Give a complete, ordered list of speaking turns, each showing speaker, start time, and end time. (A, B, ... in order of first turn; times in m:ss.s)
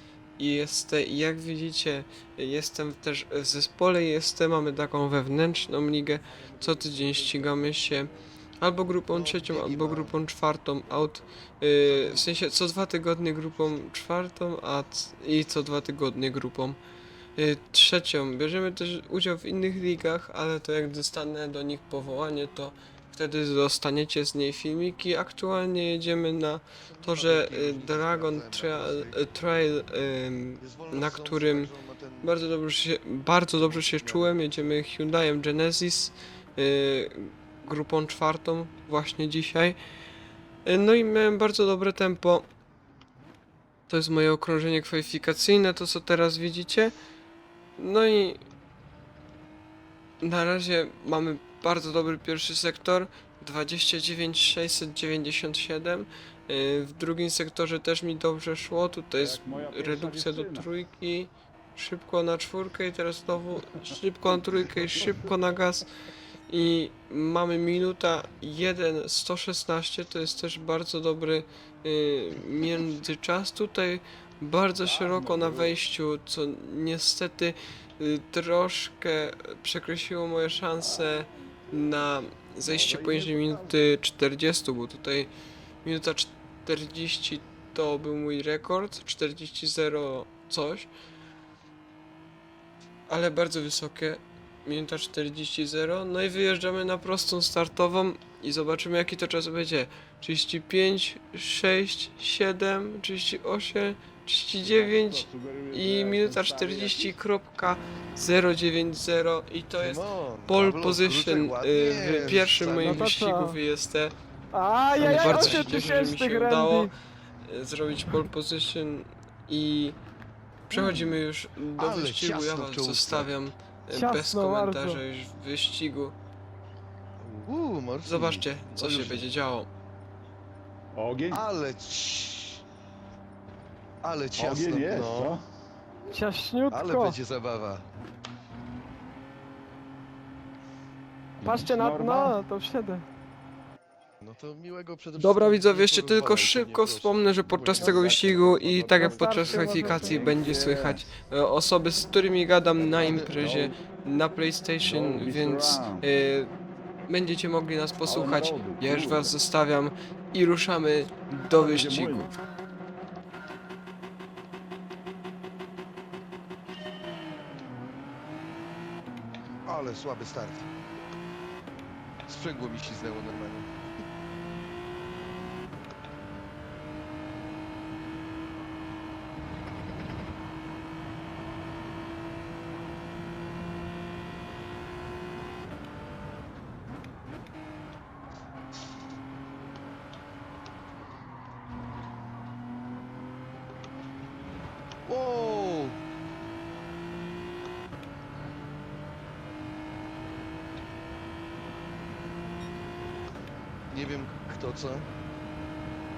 0:00.4-0:16.8 A
0:09.1-0:10.2 B
0:11.9-0:12.5 B
0:17.4-0:31.7 A
0:26.8-0:29.3 B
0:30.6-0:32.4 B
0:32.2-0:39.8 A
0:33.5-0:34.4 B
0:40.6-0:42.5 A
0:43.9-0:46.9 A
0:47.8-0:48.4 A
0:50.2-1:05.9 A
0:59.2-1:00.7 C
1:04.8-1:05.1 C
1:06.5-1:25.3 A
1:14.8-1:15.8 C
1:20.8-1:22.1 C
1:22.6-1:23.9 C
1:25.8-1:30.9 A
1:33.1-1:54.1 A
1:44.6-1:47.2 C
1:49.8-1:53.2 B
1:52.8-1:53.6 D
1:54.5-1:56.9 D
1:55.0-1:56.9 A
1:55.6-1:55.9 C
1:57.4-2:00.0 A
2:00.7-2:06.2 A
2:00.7-2:01.2 B
2:01.8-2:03.3 B
2:03.9-2:05.0 D
2:07.2-2:09.3 B
2:08.0-2:09.7 A
2:11.0-2:11.4 C
2:11.3-2:12.6 B
2:14.0-2:15.4 B
2:14.4-2:15.4 C
2:16.1-2:17.2 D
2:16.7-2:17.8 B
2:21.4-2:22.4 C
2:21.4-2:23.0 D
2:24.2-2:28.5 B
2:25.2-2:36.5 A
2:27.8-2:31.1 C
2:29.0-2:30.4 D
2:33.0-2:33.3 B
2:33.0-2:33.8 C
2:34.8-2:36.1 C
2:37.1-2:42.3 A
2:38.0-2:39.3 C
2:41.4-2:42.3 C
2:49.7-2:50.7 B
2:52.3-2:53.7 B
3:15.1-3:16.0 B
3:23.9-3:25.1 B